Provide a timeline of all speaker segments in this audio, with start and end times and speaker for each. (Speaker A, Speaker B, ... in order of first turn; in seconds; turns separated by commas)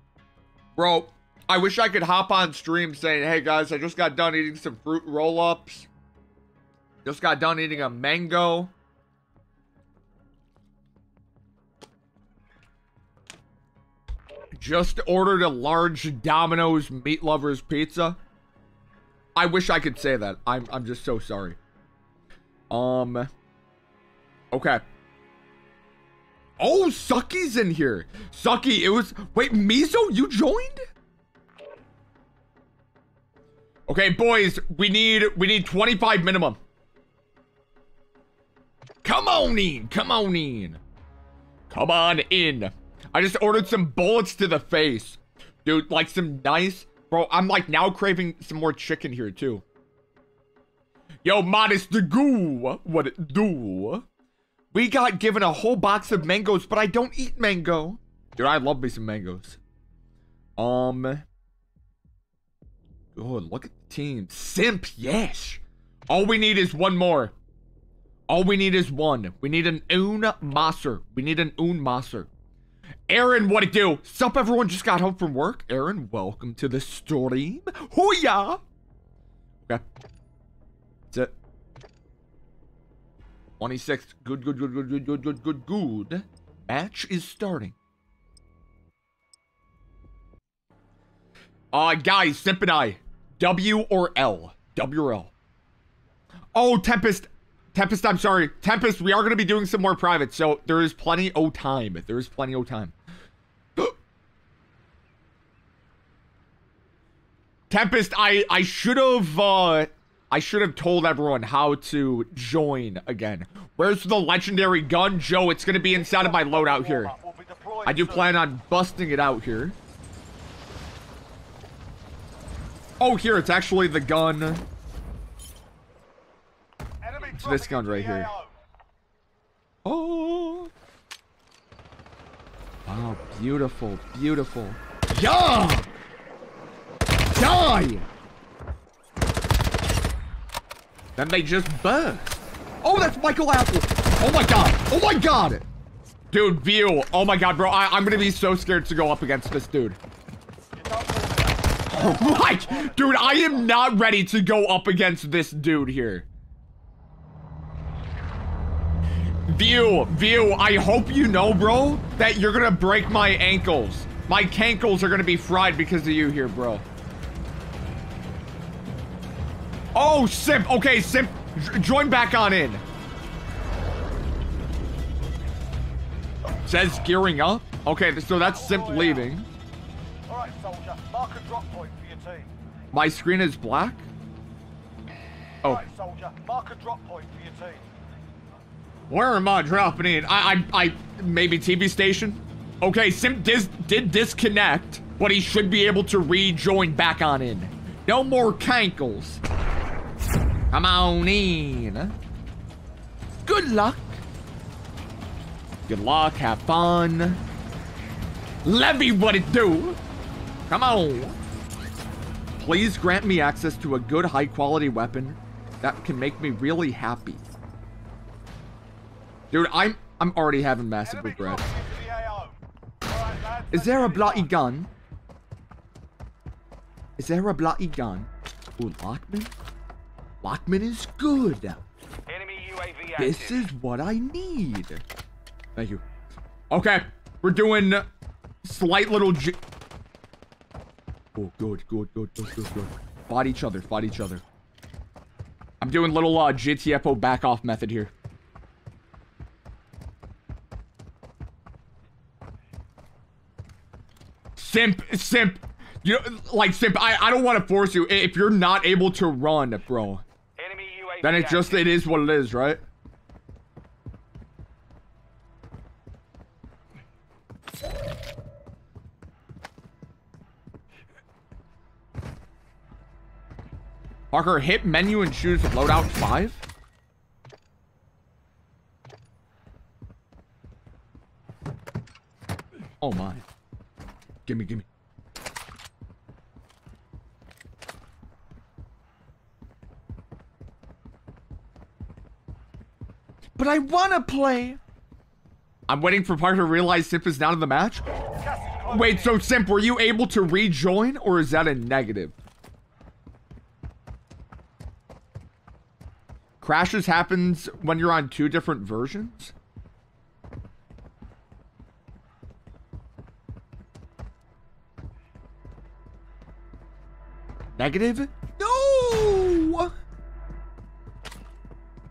Speaker A: 0.8-5.9, Speaker A: 7.0-8.7, Speaker A: 14.6-18.2, Speaker A: 19.3-21.6, Speaker A: 22.7-23.3, Speaker A: 24.5-24.8, Speaker A: 26.6-30.8, Speaker A: 33.9-36.6, Speaker A: 39.0-40.8, Speaker A: 41.7-49.6, Speaker A: 51.2-54.0, Speaker A: 54.7-59.6, Speaker A: 60.6-61.2, Speaker A: 63.1-67.3, Speaker A: 68.3-72.3, Speaker A: 73.1-78.6, Speaker A: 83.6-87.7, Speaker A: 91.7-95.3, Speaker A: 96.5-102.9, Speaker A: 107.7-117.1, Speaker B: 115.9-118.4, Speaker A: 117.8-119.8, Speaker A: 123.0-124.7, Speaker B: 127.0-128.5, Speaker A: 127.3-128.3, Speaker A: 129.8-130.7, Speaker A: 132.8-135.9, Speaker A: 137.3-138.1, Speaker A: 141.2-145.7, Speaker A: 146.3-150.0, Speaker B: 150.7-153.7, Speaker A: 151.9-156.2, Speaker A: 159.5-166.8, Speaker A: 169.9-172.8, Speaker A: 176.6-179.5, Speaker B: 178.4-179.3, Speaker B: 180.3-182.5, Speaker A: 182.9-184.1, Speaker B: 185.6-187.9, Speaker A: 189.1-199.4, Speaker A: 200.7-202.1, Speaker A: 203.4-204.2, Speaker A: 205.9-207.4, Speaker A: 208.6-210.0, Speaker A: 210.7-211.4, Speaker A: 212.6-217.4, Speaker A: 219.5-221.6, Speaker B: 221.0-224.5, Speaker A: 223.7-224.9, Speaker A: 227.2-229.5, Speaker A: 230.4-231.8, Speaker C: 232.3-233.6, Speaker A: 233.2-235.0, Speaker A: 235.8-236.0, Speaker A: 236.7-238.1, Speaker A: 238.6-239.6, Speaker A: 241.3-244.4, Speaker A: 245.8-248.1, Speaker A: 254.6-260.2, Speaker C: 260.6-261.8, Speaker A: 261.2-262.8, Speaker A: 274.3-276.6, Speaker A: 283.0-283.4, Speaker A: 284.4-284.9, Speaker A: 293.6-294.8, Speaker A: 295.9-298.1, Speaker B: 298.2-299.4, Speaker A: 298.9-302.4, Speaker A: 306.6-309.5, Speaker A: 317.8-319.9